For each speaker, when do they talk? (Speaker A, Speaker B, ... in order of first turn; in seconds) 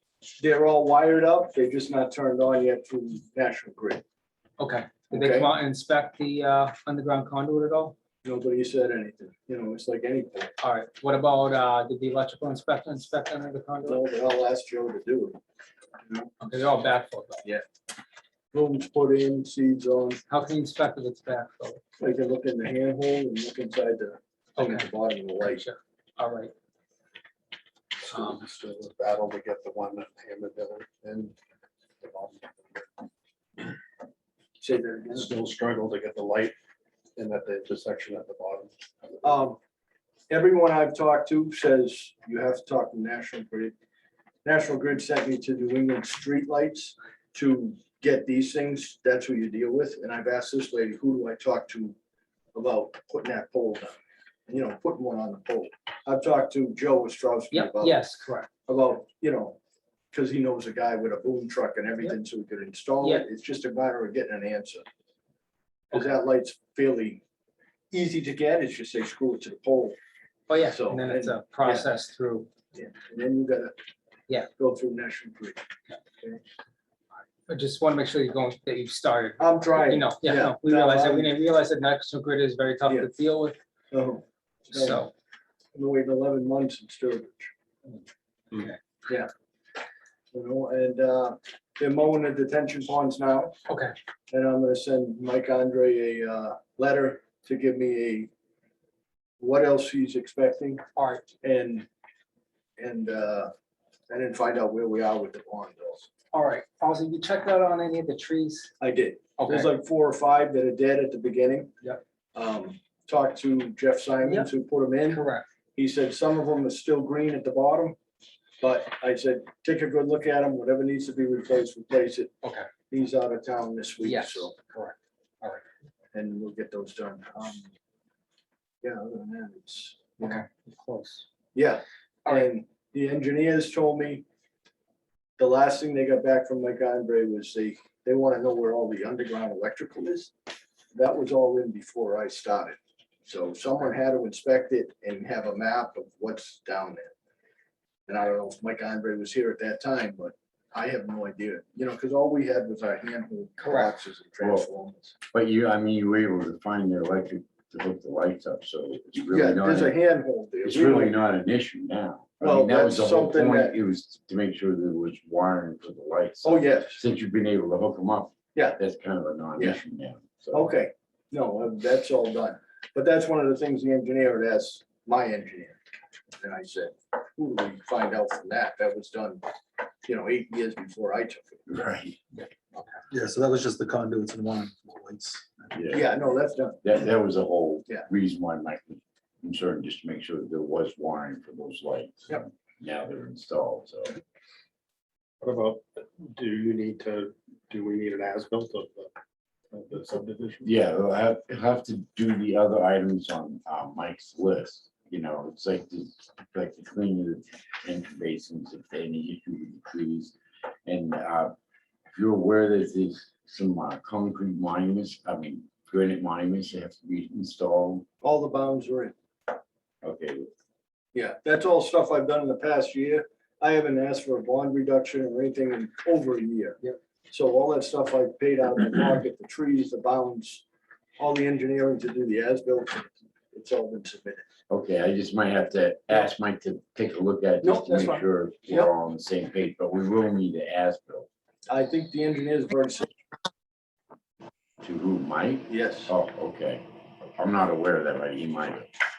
Speaker A: 0.4-4.0, 5.1-5.5, 8.2-10.6, 13.8-15.4, 18.5-20.2, 22.0-25.7, 34.6-35.3, 39.2-39.6, 40.3-43.7, 44.4-52.0, 52.5-54.0, 54.5-58.0, 58.7-59.6, 60.1-64.8, 65.9-67.2, 67.9-70.0, 70.7-71.9, 72.7-73.7, 74.6-75.6, 79.4-81.3, 82.9-83.1, 83.9-85.0, 85.7-87.5, 90.3-93.5, 94.3-98.3, 99.4-100.8, 101.4-101.9, 102.8-103.5, 104.1-106.1, 108.8-111.7, 112.3-115.2, 115.8-118.0, 118.6-122.3, 122.9-124.5, 126.1-127.7, 128.8-130.4, 131.5-134.2, 135.4-140.3, 140.9-147.1, 148.1-155.2, 159.3-161.2, 162.4-163.8, 166.4-167.0, 170.5-175.8, 176.4-179.4, 180.1-181.7, 185.9-186.8, 218.2-219.1, 221.1-226.8, 227.3-230.7, 231.2-234.4, 237.6-238.9, 241.7-243.1, 245.7-246.1
Speaker B: 4.6-8.0, 10.6-14.0, 16.4-17.5, 20.3-21.8, 24.6-24.9, 25.4-26.5, 57.5-58.5, 70.5-72.5, 77.5-83.6, 84.7-85.1, 93.7-93.9, 101.0-101.2, 106.3-108.7, 109.4-109.7, 114.2-114.5, 115.1-115.4, 122.4-122.7, 124.0-125.6, 130.2-131.3, 153.6-153.9
Speaker C: 28.0-31.4, 32.0-33.0, 35.1-36.5, 37.2-38.7, 195.4-199.1, 199.7-200.7
Speaker D: 154.4-154.7, 155.3-160.0, 160.7-170.7, 181.7-182.2, 185.7-186.1, 186.8-194.2, 200.6-211.5, 212.1-218.1, 220.0-220.5, 234.7-241.3, 244.8-248.9
Speaker E: 183.1-185.5